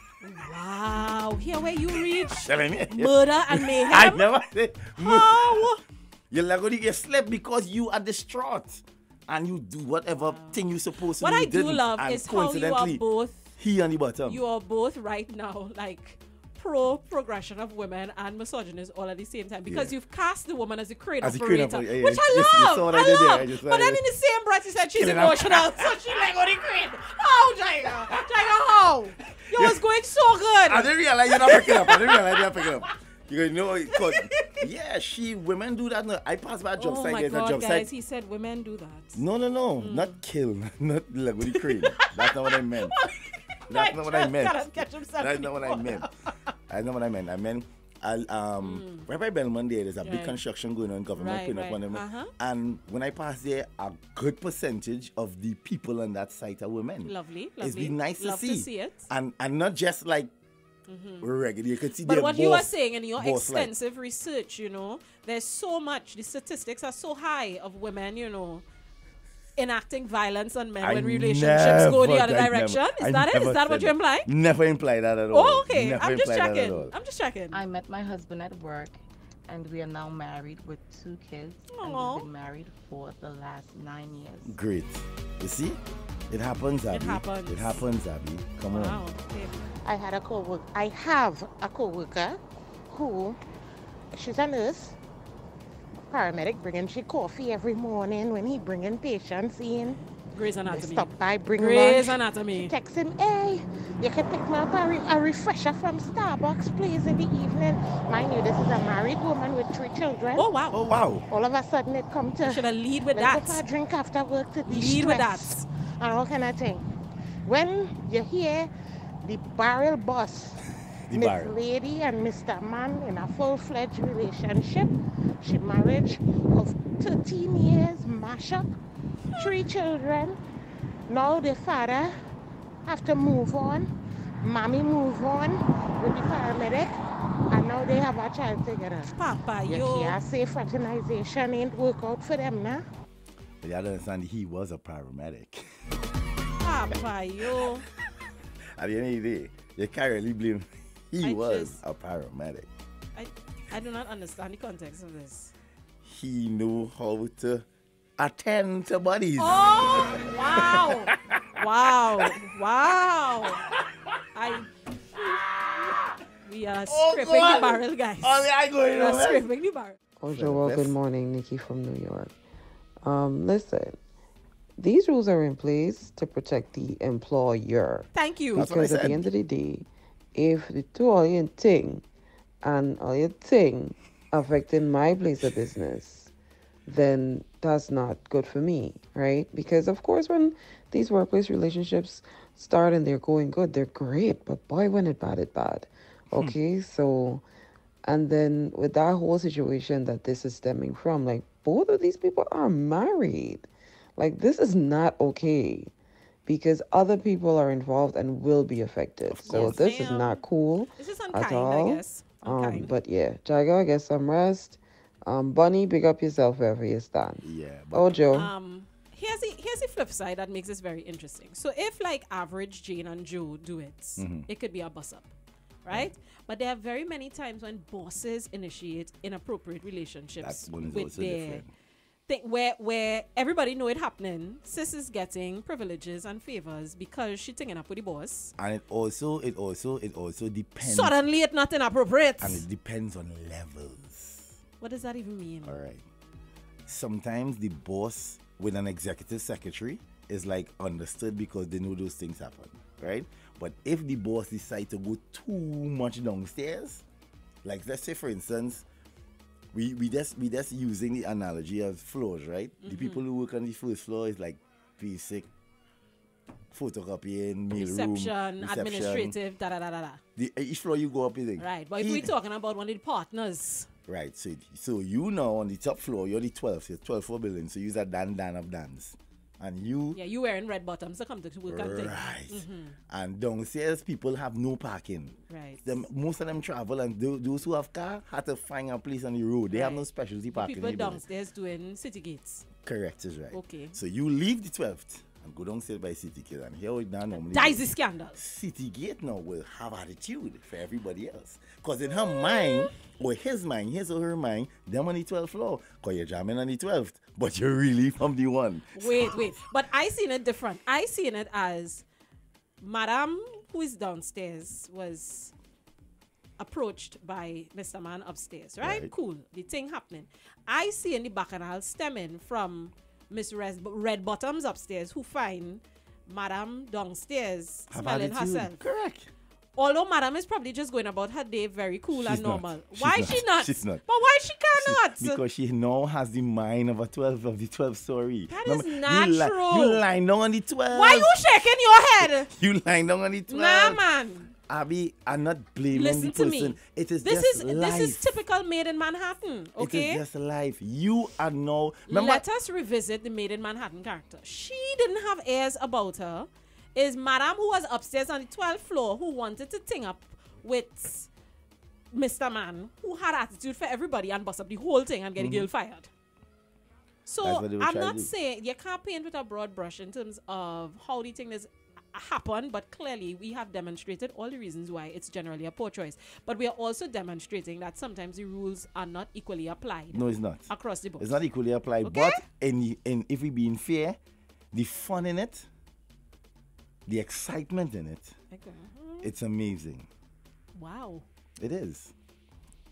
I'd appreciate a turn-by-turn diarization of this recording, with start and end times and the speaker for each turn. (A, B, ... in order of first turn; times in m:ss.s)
0:00.2-0:04.2 A
0:02.3-0:05.7 B
0:05.0-0:05.8 A
0:06.3-0:13.0 B
0:10.1-0:10.6 A
0:11.2-0:13.6 A
0:13.6-0:14.4 B
0:14.2-0:32.6 A
0:19.7-0:19.9 B
0:21.2-0:24.0 B
0:25.0-0:26.0 B
0:29.5-0:29.8 B
0:30.7-0:37.9 B
0:33.9-0:34.6 A
0:36.8-0:39.2 A
0:39.1-0:43.0 B
0:39.8-0:40.2 A
0:41.5-0:46.3 A
0:43.7-0:46.1 B
0:46.7-1:00.3 B
0:48.6-0:49.1 A
0:50.0-0:50.4 A
0:51.2-0:52.3 A
0:57.0-0:59.1 A
1:00.9-1:01.3 A
1:01.2-1:03.7 B
1:02.0-1:08.6 A
1:09.6-1:14.3 A
1:10.8-1:16.9 B
1:15.3-1:17.6 A
1:17.5-1:24.6 C
1:21.7-1:22.3 A
1:24.4-1:29.0 B
1:26.9-1:27.8 A
1:28.7-1:29.5 A
1:29.8-1:32.4 D
1:32.9-1:33.4 D
1:34.1-1:35.0 D
1:36.1-1:40.0 D
1:40.3-1:42.7 A
1:40.7-1:50.4 D
1:50.4-1:50.8 A
1:50.7-1:51.2 B
1:51.3-1:56.8 D
1:52.4-1:53.6 A
1:54.7-1:55.6 A
1:57.4-1:58.7 D
1:59.2-2:00.6 D
2:01.1-2:01.5 B
2:01.1-2:08.7 D
2:09.4-2:10.4 D
2:11.1-2:12.2 D
2:12.8-2:13.9 D
2:14.4-2:16.9 D
2:17.5-2:19.1 D
2:19.1-2:20.2 A
2:19.7-2:22.8 D
2:23.6-2:25.6 B
2:26.6-2:27.9 A
2:28.8-2:32.7 B
2:31.2-2:31.8 A
2:33.1-2:35.5 A
2:36.0-2:37.6 B
2:38.2-2:41.4 B
2:39.4-2:43.6 A
2:44.3-2:45.4 A
2:46.4-2:50.0 A
2:46.9-2:49.4 B
2:50.2-2:52.3 E
2:50.3-2:51.0 B
2:53.0-2:54.0 E
2:54.8-3:02.0 E
2:58.1-2:58.7 A
2:58.5-2:59.2 B
3:02.6-3:06.3 E
3:06.8-3:17.4 E
3:18.0-3:23.6 E
3:24.2-3:25.9 E
3:26.4-3:38.5 E
3:29.3-3:29.9 B
3:29.4-3:30.4 A
3:31.0-3:32.9 A
3:37.4-3:38.3 B
3:38.3-3:45.3 A
3:44.2-3:44.5 B
3:45.8-3:51.6 A
3:50.4-3:51.7 B
3:52.3-3:58.5 A
3:58.6-4:01.1 B
4:00.8-4:02.6 A
4:02.4-4:04.6 B
4:04.8-4:05.8 A
4:05.6-4:06.0 B
4:06.9-4:17.0 B
4:17.6-4:18.8 B
4:19.7-4:25.5 B
4:22.8-4:23.2 A
4:26.7-4:29.3 B
4:27.7-4:30.2 A
4:30.4-4:32.3 B
4:31.6-4:33.9 A
4:34.1-4:40.2 B
4:40.1-4:43.0 A
4:41.7-4:51.2 B
4:45.5-4:46.0 A
4:49.7-4:52.6 A
4:52.8-5:09.5 B
4:53.5-4:54.0 A
4:57.4-4:58.4 A
5:02.5-5:02.8 A
5:08.9-5:12.0 A
5:12.8-5:15.5 A
5:16.6-5:28.8 A
5:18.8-5:19.1 B
5:27.9-5:29.3 B
5:29.8-5:35.4 A
5:32.1-5:34.0 B
5:34.7-5:41.3 B
5:38.5-5:40.0 A
5:40.9-5:42.5 A
5:42.2-5:48.3 B
5:43.5-5:44.5 A
5:45.9-5:50.2 A
5:49.8-5:52.4 B
5:52.1-6:01.3 A
6:02.1-6:06.1 A
6:05.4-6:05.7 B
6:07.2-6:21.4 A
6:07.4-6:08.3 B
6:20.1-6:24.2 B
6:22.0-6:22.4 A
6:24.7-6:25.7 B
6:27.1-6:28.3 B
6:28.5-6:29.3 A
6:29.2-6:30.1 B
6:30.7-6:31.2 A
6:31.6-6:32.1 B